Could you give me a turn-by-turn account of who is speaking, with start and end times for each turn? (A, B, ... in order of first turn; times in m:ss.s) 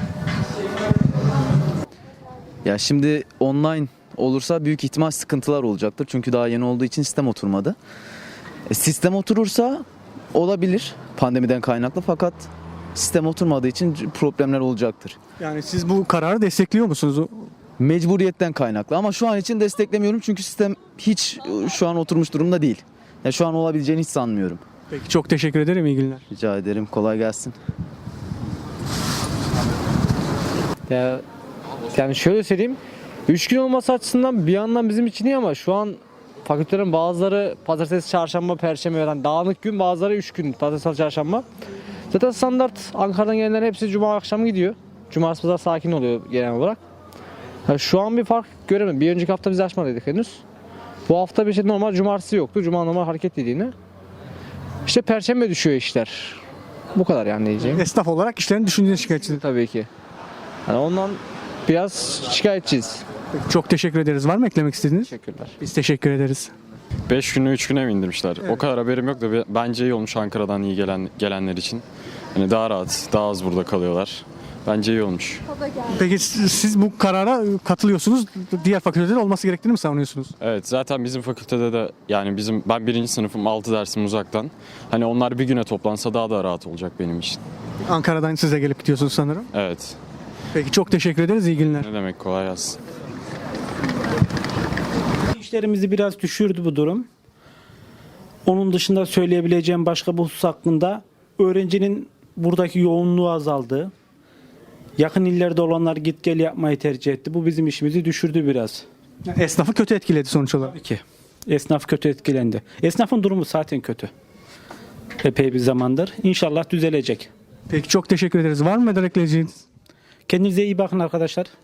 0:02.6-0:07.8 A
0:08.7-0:15.2 A
0:15.4-0:17.5 B
0:17.8-0:24.6 A
0:24.9-0:26.2 B
0:26.3-0:27.6 A
0:30.9-0:31.2 C
0:32.0-0:41.4 C
0:42.1-0:46.8 C
0:47.7-0:50.4 C
0:51.1-0:53.7 C
0:54.9-0:56.4 C
0:57.0-0:57.8 C
0:57.6-0:59.4 B
0:59.3-0:59.9 C
1:00.7-1:03.0 C
1:03.4-1:06.5 B
1:05.1-1:05.5 C
1:07.1-1:11.8 D
1:12.4-1:15.4 D
1:15.9-1:20.3 B
1:20.4-1:27.4 D
1:27.9-1:29.5 B
1:29.5-1:30.0 D
1:30.5-1:31.9 B
1:31.8-1:32.8 D
1:35.4-1:37.1 E
1:38.5-1:43.9 E
1:45.0-1:48.9 E
1:49.3-1:50.8 B
1:50.7-1:54.1 E
1:55.2-1:57.3 E
1:57.7-1:59.6 B
2:00.3-2:01.5 E